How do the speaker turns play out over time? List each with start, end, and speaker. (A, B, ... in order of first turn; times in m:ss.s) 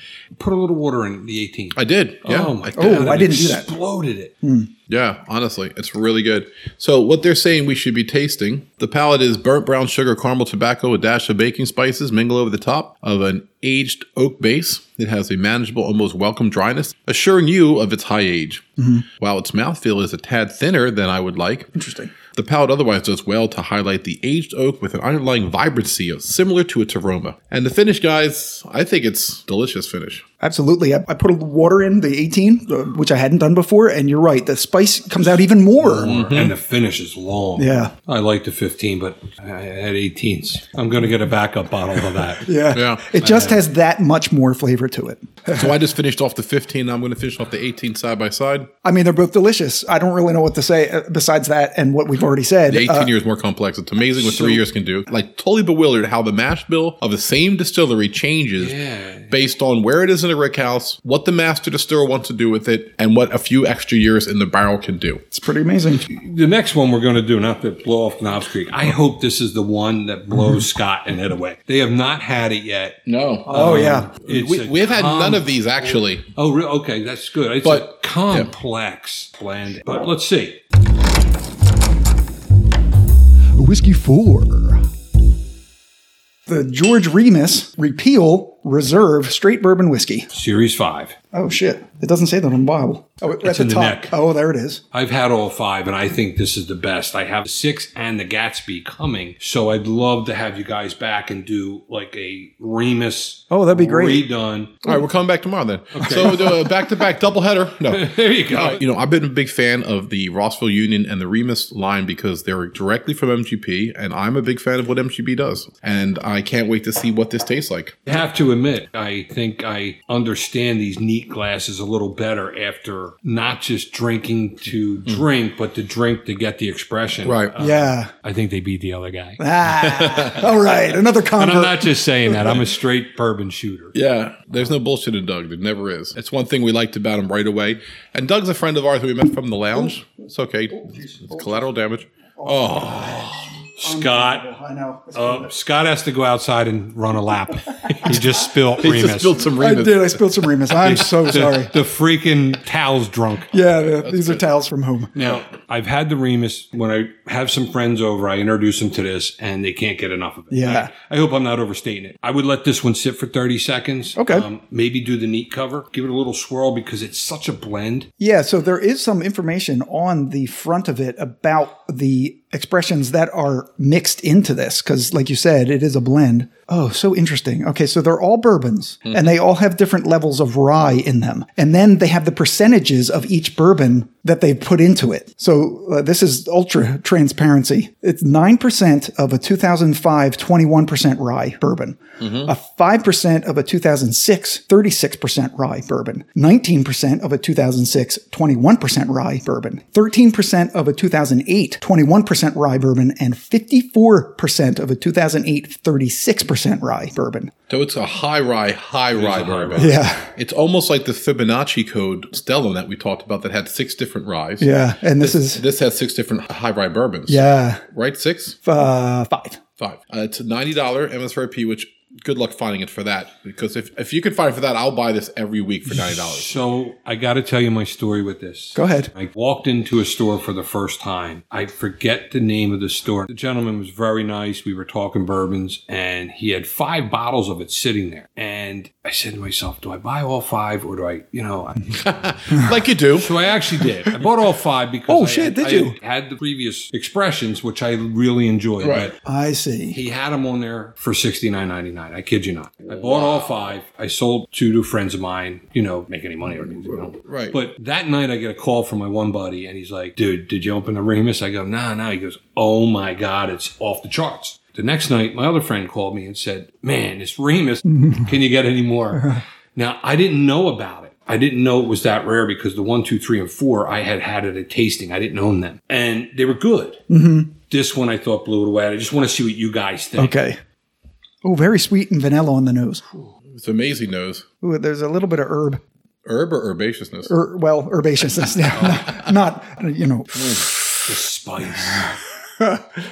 0:00.4-0:04.3 A
0:01.7-0:02.7 B
0:02.8-0:03.7 C
0:04.4-0:04.7 C
0:04.9-0:21.7 B
0:18.8-0:19.0 C
0:21.8-0:22.1 C
0:22.3-0:30.2 B
0:30.4-0:36.1 C
0:35.8-0:42.6 A
0:36.0-0:36.5 B
0:37.6-0:37.9 C
0:42.4-0:45.7 C
0:42.7-0:43.1 B
0:43.2-0:43.6 A
0:45.5-0:48.7 B
0:48.8-0:53.1 C
0:52.7-0:58.8 B
0:54.2-0:54.6 A
0:58.6-0:59.3 A
0:59.3-1:05.2 B
1:05.3-1:06.1 C
1:06.0-1:20.6 A
1:13.1-1:16.3 B
1:13.5-1:14.1 C
1:17.6-1:18.5 B
1:23.6-1:24.8 C
1:26.5-1:30.3 C
1:30.3-1:31.2 A
1:31.3-1:34.8 C
1:33.4-1:34.1 A
1:34.9-1:44.8 A
1:43.5-1:44.2 C
1:44.8-1:58.0 B
1:46.0-1:46.7 A
1:47.9-1:48.8 A
1:58.1-2:09.4 A
2:07.2-2:07.5 B
2:07.6-2:08.1 C
2:09.4-2:12.3 C
2:09.8-2:10.4 B
2:11.3-2:13.9 A
2:13.9-2:23.5 B
2:20.8-2:21.7 C
2:22.4-2:25.5 C
2:23.8-2:24.5 A
2:25.1-2:29.4 A
2:28.8-2:30.4 B
2:29.5-2:31.7 C
2:30.8-2:33.5 A
2:33.5-2:35.1 C
2:33.8-2:34.4 B
2:35.1-2:48.1 A
2:40.5-2:40.9 C
2:44.2-2:44.5 C
2:48.2-3:27.5 C
2:59.1-2:59.4 B
3:12.2-3:12.5 B
3:27.7-3:38.6 B
3:29.1-3:30.0 A
3:29.8-3:30.3 C
3:34.6-3:35.6 C
3:37.3-3:37.8 C
3:38.6-3:39.6 C
3:39.8-3:46.5 B
3:45.9-4:01.9 A
3:48.8-3:49.1 C
4:01.9-4:03.4 B
4:03.1-4:09.2 A
4:05.1-4:06.0 C
4:08.8-4:09.1 B
4:09.2-4:10.0 C
4:09.9-4:37.0 A
4:12.9-4:13.4 B
4:17.1-4:17.6 B
4:27.9-4:28.3 C
4:37.1-4:37.5 C
4:37.7-4:40.4 A
4:40.2-4:40.6 C
4:41.4-4:43.0 C
4:43.5-4:44.5 B
4:44.6-4:45.8 C
4:46.2-4:47.3 B
4:47.3-4:51.0 C
4:51.0-4:52.1 A